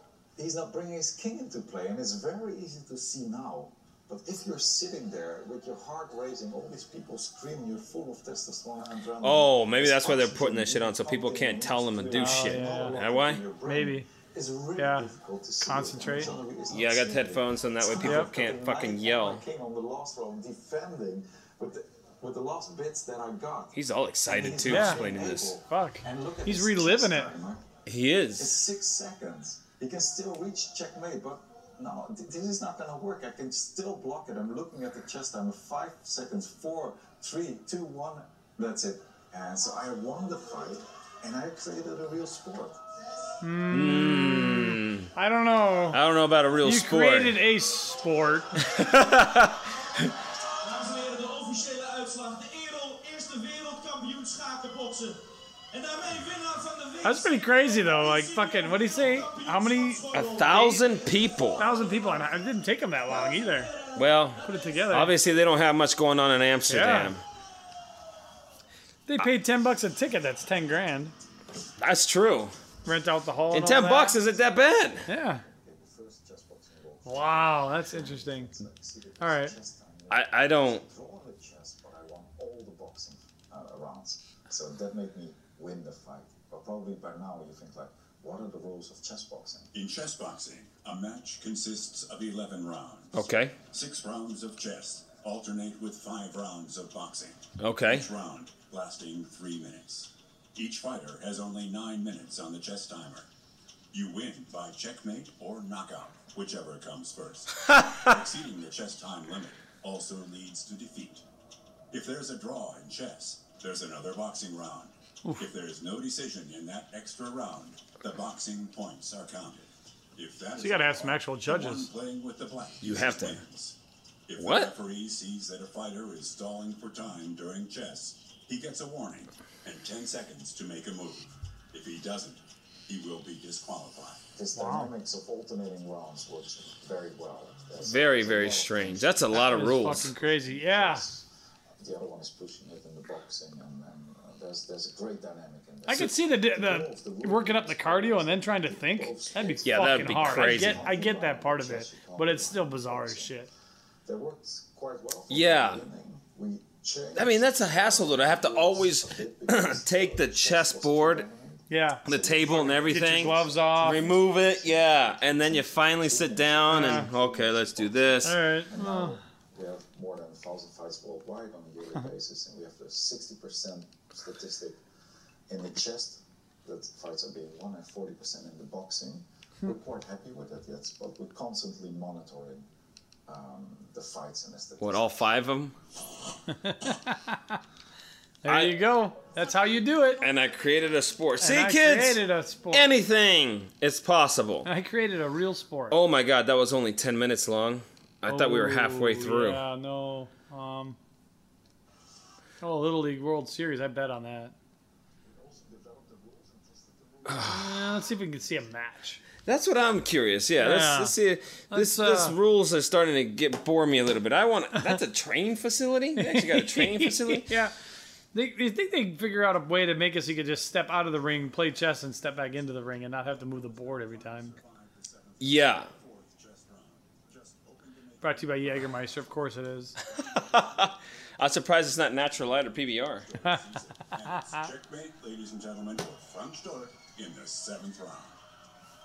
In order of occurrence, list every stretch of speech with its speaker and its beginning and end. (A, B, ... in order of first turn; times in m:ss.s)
0:00.4-0:23.8 A
0:09.2-0:13.4 B
0:12.1-0:13.0 C
0:13.7-0:14.1 C
0:14.8-0:15.1 C
0:15.6-0:16.3 C
0:16.7-0:19.4 B
0:18.0-0:18.3 C
0:23.7-0:25.6 B
0:24.3-0:27.6 A
0:24.7-0:25.1 C
0:25.7-0:27.3 C
0:27.9-0:28.5 B
0:28.4-0:42.8 A
0:43.4-0:46.0 C
0:43.7-0:45.1 B
0:45.9-0:47.4 B
0:46.6-0:48.8 C
0:48.6-0:50.1 B
0:50.6-0:55.2 D
0:55.7-1:00.8 D
0:57.0-1:00.1 C
1:00.1-1:01.7 B
1:01.6-1:03.7 C
1:04.0-1:07.2 B
1:04.4-1:05.1 C
1:06.7-1:07.2 C
1:09.1-1:11.1 C
1:11.8-1:12.6 B
1:12.8-1:14.2 C
1:13.5-1:15.1 B
1:15.1-1:15.4 C
1:15.1-1:29.7 A
1:17.0-1:18.6 C
1:19.2-1:19.6 C
1:20.1-1:20.8 B
1:29.7-1:43.3 E
1:33.1-1:33.6 B
1:37.6-1:38.1 B
1:43.9-1:51.2 E
1:47.7-1:48.1 B
1:51.9-2:03.8 E
2:00.6-2:01.9 C
2:02.8-2:03.4 B
2:04.3-2:14.3 E
2:04.4-2:04.7 B
2:14.3-2:21.3 A
2:14.6-2:14.9 C
2:17.8-2:20.2 B
2:19.3-2:21.0 C
2:21.8-2:33.4 A
2:25.9-2:33.5 C
2:29.6-2:31.0 B
2:34.1-2:54.8 A
2:35.3-2:35.8 B
2:37.2-2:41.3 B
2:41.7-2:44.1 C
2:42.1-2:48.6 B
2:46.7-2:47.1 C
2:48.2-2:49.2 C
2:55.5-3:02.6 A
3:03.3-3:05.3 A
3:04.8-3:05.8 B
3:06.5-3:07.6 C
3:08.4-3:10.3 C
3:08.4-3:08.8 B
3:10.2-3:14.7 B
3:11.4-3:12.9 C
3:14.6-3:16.0 C
3:15.9-3:19.6 B
3:18.3-3:21.0 C
3:22.6-3:24.5 C
3:25.2-3:28.4 A
3:27.3-3:27.8 B
3:27.4-3:29.2 C
3:29.4-3:37.5 B
3:30.6-3:31.2 C
3:31.7-3:32.4 C
3:36.2-3:37.7 C
3:38.3-3:44.6 C
3:41.0-3:41.9 E
3:42.6-3:49.4 E
3:45.4-3:45.9 B
3:48.2-3:50.0 C
3:50.1-3:52.0 E
3:50.2-3:53.3 B
3:52.7-3:58.4 E
3:54.3-3:54.7 C